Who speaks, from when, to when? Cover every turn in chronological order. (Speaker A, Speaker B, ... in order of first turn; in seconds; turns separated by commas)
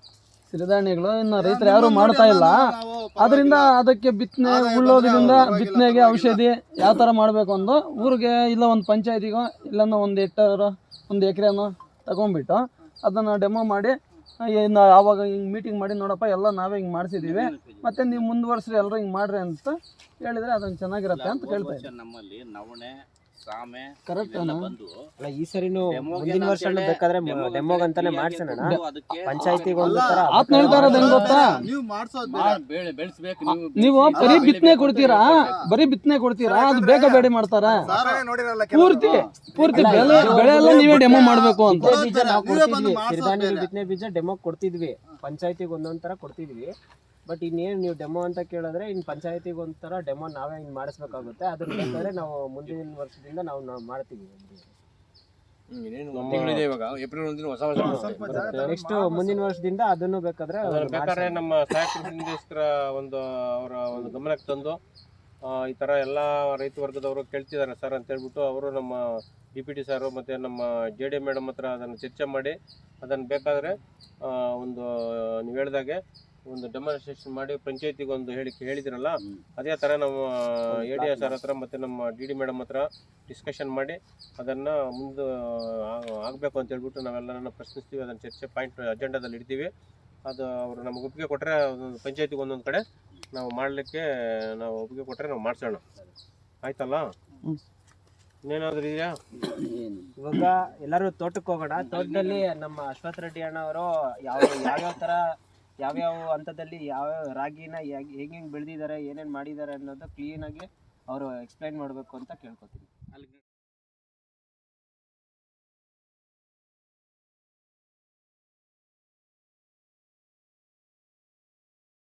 Speaker A: 0.5-21.9, Speaker B: 1.4-3.7, Speaker B: 4.4-6.4, Speaker C: 17.2-18.3, Speaker C: 21.1-25.0, Speaker A: 24.1-24.7, Speaker D: 25.2-31.6, Speaker C: 25.9-31.2, Speaker B: 29.8-32.6, Speaker A: 30.1-31.7, Speaker C: 32.3-35.6, Speaker A: 33.5-38.1, Speaker B: 34.1-35.7, Speaker B: 36.4-43.7, Speaker A: 38.7-42.1, Speaker D: 39.6-46.7, Speaker D: 47.3-54.7, Speaker E: 55.7-58.1, Speaker F: 56.1-56.6, Speaker D: 57.8-61.4, Speaker B: 57.8-59.4, Speaker F: 58.0-58.7, Speaker F: 60.6-64.8, Speaker F: 65.5-69.0, Speaker F: 69.6-76.0, Speaker F: 76.5-89.7, Speaker C: 80.8-81.3, Speaker F: 90.3-92.8, Speaker F: 93.3-95.8, Speaker F: 96.7-97.1, Speaker F: 98.5-99.2, Speaker A: 99.4-100.1, Speaker D: 100.2-105.2, Speaker C: 102.0-102.4, Speaker D: 105.8-112.9